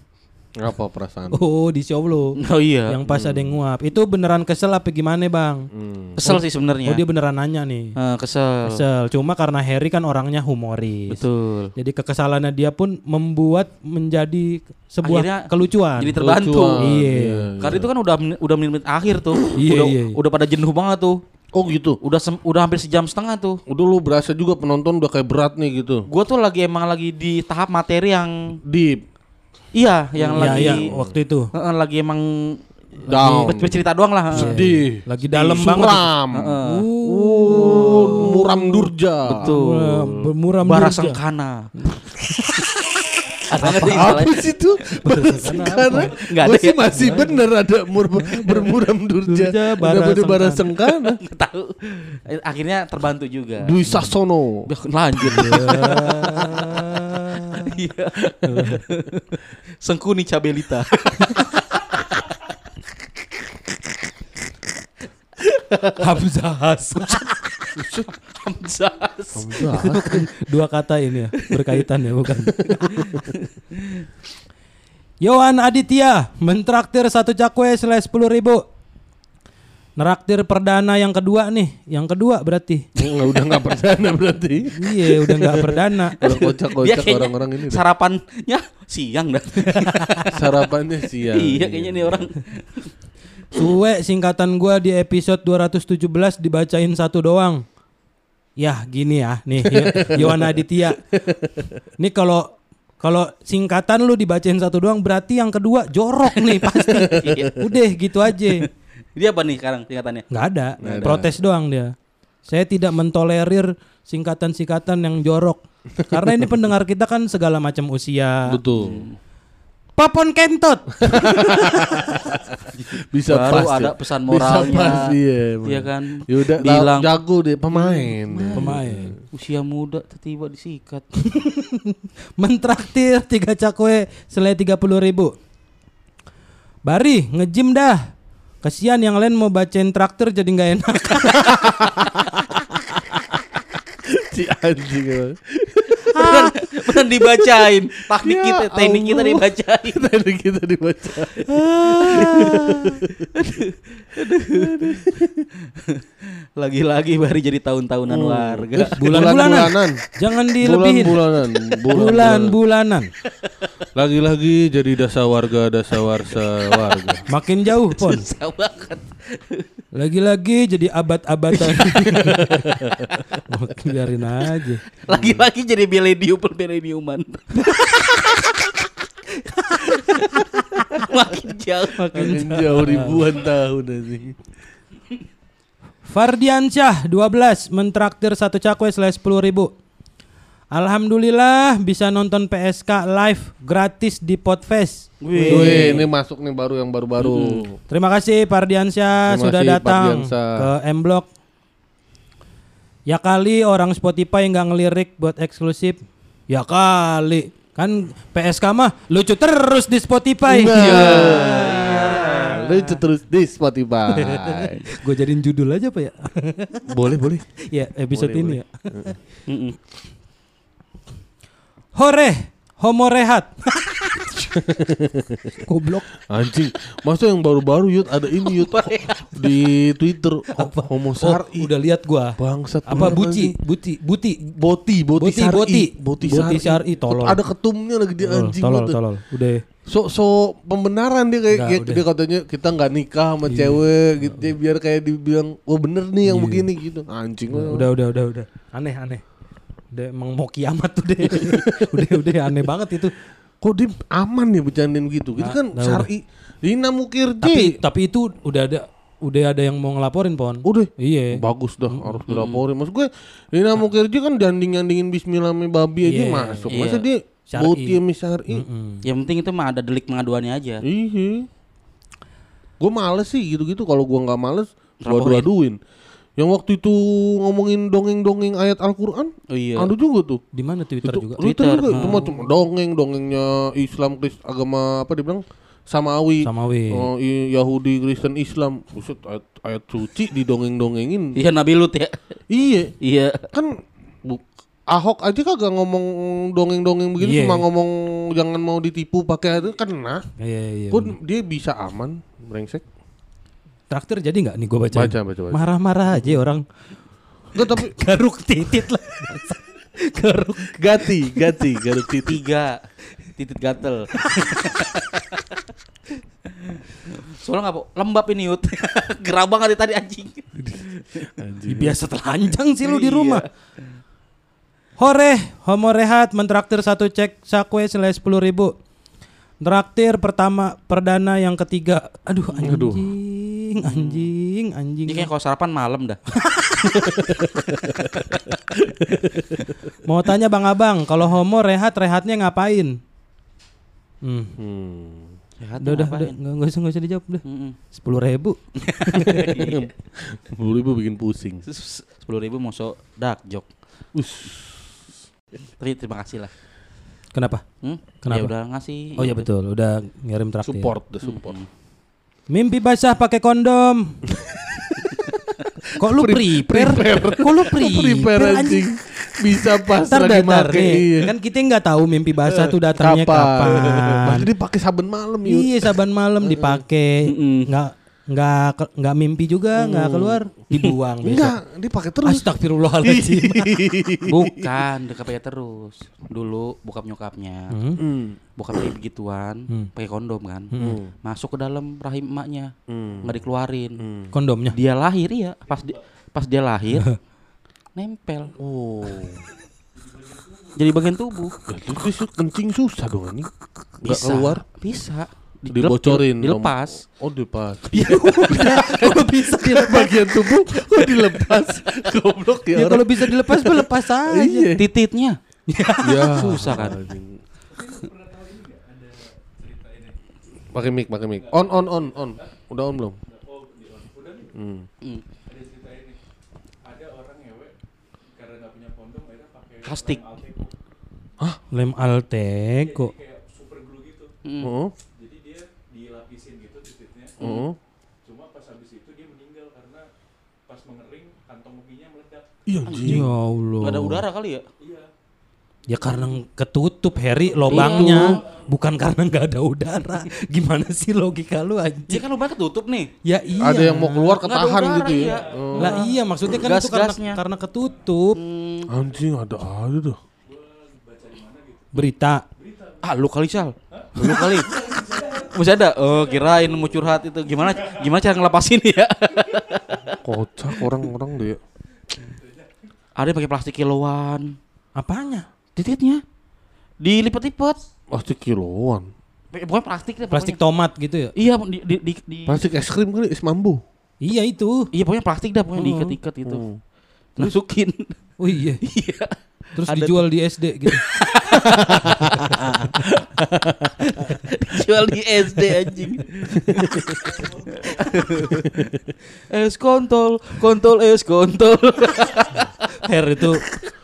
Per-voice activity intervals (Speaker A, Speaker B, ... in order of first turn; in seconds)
Speaker A: 0.6-1.5, 3.1-3.5, 5.7-6.2, 16.2-17.9, 21.5-22.0, 23.7-26.0, 28.7-29.0, 30.2-31.2, 33.1-33.8, 34.3-39.5, 43.9-51.2, 53.6-54.7, 67.8-68.1, 69.3-70.2, 83.0-87.8, 90.3-92.3, 99.8-100.4, 101.1-101.8, 107.1-107.5, 110.8-111.3, 116.0-116.5, 118.5-119.0, 121.0-128.8, 141.4-153.5, 154.5-155.3, 158.1-160.0, 160.6-162.6, 163.9-167.2, 172.1-173.2, 175.1-175.4, 182.1-184.4, 195.5-197.8, 199.3-200.6, 210.5-214.8, 216.9-217.4, 218.1-219.1, 224.6-225.5, 226.2-231.7, 232.4-233.6, 234.4-239.0, 239.8-247.8, 251.4-252.0, 253.6-257.7, 260.6-268.6, 270.8-271.5, 272.8-275.8, 276.4-280.4, 281.0-291.4, 292.5-292.9, 293.5-300.2, 300.9-302.8, 304.9-306.3, 307.5-307.9, 310.7-312.4, 321.4-321.9, 332.6-333.1, 337.0-339.6, 344.6-345.3, 349.6-351.6, 354.1-354.9, 360.6-361.5, 366.0-371.3, 372.5-375.9, 376.4-376.8, 379.8-380.2, 381.2-384.7, 388.0-388.4, 390.8-391.1, 392.9-393.3, 394.0-394.3, 398.6-399.4, 401.7-404.6, 405.7-414.9, 416.0-417.4, 420.7-423.2, 424.5-424.9, 434.6-434.9, 437.4-437.8, 442.7-443.2, 447.7-448.4, 453.6-456.0, 458.9-460.2, 470.2-471.6, 478.1-479.1, 482.5-483.8, 486.4-486.8, 498.6-498.9
Speaker B: 1.3-5.7, 6.2-7.9, 8.7-11.2, 11.8-16.2, 16.8-17.5, 19.5-20.2, 30.4-31.5, 34.3-36.0, 36.6-38.9, 39.4-41.2, 41.8-42.6, 43.5-44.3, 45.0-46.1, 46.9-47.4, 48.2-48.7, 49.3-50.6, 55.2-57.8, 58.5-58.8, 66.0-67.3, 69.7-73.1, 75.2-78.6, 80.0-82.8, 84.8-86.2, 93.5-97.6, 98.6-101.0, 102.0-108.7, 110.3-111.9, 112.4-118.6, 120.0-122.1, 128.5-129.1, 131.3-135.3, 136.8-138.1, 138.6-141.7, 151.4-153.0, 159.0-161.2, 161.9-163.1, 167.3-168.2, 169.9-172.6, 173.5-174.8, 179.5-180.9, 181.9-183.3, 186.1-189.7, 190.7-196.0, 197.9-201.2, 203.1-206.0, 206.5-212.4, 214.1-216.8, 217.7-219.2, 221.9-224.6, 225.6-226.1, 230.6-234.4, 235.2-237.4, 238.2-239.6, 241.5-242.0, 243.5-243.8, 246.2-246.7, 247.5-249.2, 249.9-253.1, 255.4-256.1, 257.4-262.2, 266.0-266.7, 267.5-269.0, 280.5-281.4, 286.4-287.1, 297.2-297.6, 300.4-301.1, 303.9-306.6, 307.6-311.1, 321.7-323.4, 325.0-328.7, 329.6-335.3, 336.4-337.2, 340.1-343.0, 344.2-344.6, 345.8-349.7, 357.3-357.6, 358.2-358.5, 359.2-360.9, 362.5-364.2, 366.0-368.8, 370.1-374.5, 375.4-381.5, 382.2-383.7, 387.7-388.0, 390.7-391.0, 394.3-394.8, 407.9-411.2, 412.7-414.7, 415.7-416.7, 431.7-433.1, 443.0-444.2, 445.9-452.2, 453.2-454.4, 455.8-458.4, 461.9-462.4, 474.9-475.5, 480.3-481.3, 484.2-484.9, 485.8-486.1, 488.4-488.8, 489.8-491.0, 492.0-492.9, 503.0-503.6
Speaker C: 2.4-3.0, 6.2-7.0, 8.0-8.8, 11.1-11.7, 15.0-16.8, 17.6-21.2, 22.0-23.6, 26.1-28.6, 29.7-30.8, 31.5-34.5, 36.3-36.8, 37.7-38.3, 39.2-40.0, 40.6-41.7, 43.5-44.5, 45.2-47.3, 51.0-53.7, 54.7-56.8, 57.6-62.4, 65.4-66.0, 67.0-69.7, 71.4-71.8, 72.7-74.1, 86.2-90.4, 91.2-92.9, 106.3-107.7, 108.3-108.6, 109.2-110.3, 110.8-111.3, 118.7-119.2, 122.8-127.1, 127.7-131.0, 146.2-150.0, 153.3-156.0, 156.6-159.0, 163.4-163.7, 165.9-167.2, 167.8-169.7, 171.6-172.1, 175.1-178.8, 179.9-182.1, 195.2-196.1, 197.2-197.6, 210.7-212.8, 219.5-219.8, 228.4-229.4, 262.3-262.6, 266.7-267.1, 269.0-270.8, 275.0-275.5, 279.5-279.9, 281.4-282.3, 291.4-292.4, 293.0-293.5, 312.2-312.8, 313.4-315.5, 317.1-321.3, 322.8-323.4, 333.8-334.3, 335.1-336.2, 345.6-346.4, 347.4-347.8, 349.1-349.8, 351.6-353.7, 355.8-356.5, 357.8-359.5, 361.2-361.7, 377.3-377.7, 384.2-387.7, 388.6-392.7, 393.2-394.0, 394.7-397.1, 397.9-398.5, 400.8-401.5, 404.0-407.0, 414.8-415.4, 416.3-417.0, 429.8-430.3, 434.4-434.7, 442.9-443.2, 443.8-444.7, 447.7-448.4, 452.1-453.1, 454.4-457.4, 458.3-458.9, 463.0-464.8, 465.3-470.2, 473.1-474.6, 475.7-476.2, 477.0-477.8, 479.5-480.6, 481.3-482.6, 484.9-486.6, 487.4-488.2, 488.8-490.2, 490.9-498.8, 499.5-502.7
Speaker D: 400.0-400.7, 417.7-420.2, 421.4-422.5, 423.2-424.5, 425.4-426.2, 426.8-427.7, 428.3-430.7, 432.8-434.3, 435.1-437.4, 438.2-440.1, 440.7-442.5, 444.8-445.1, 455.1-455.7, 460.4-463.0, 464.0-467.2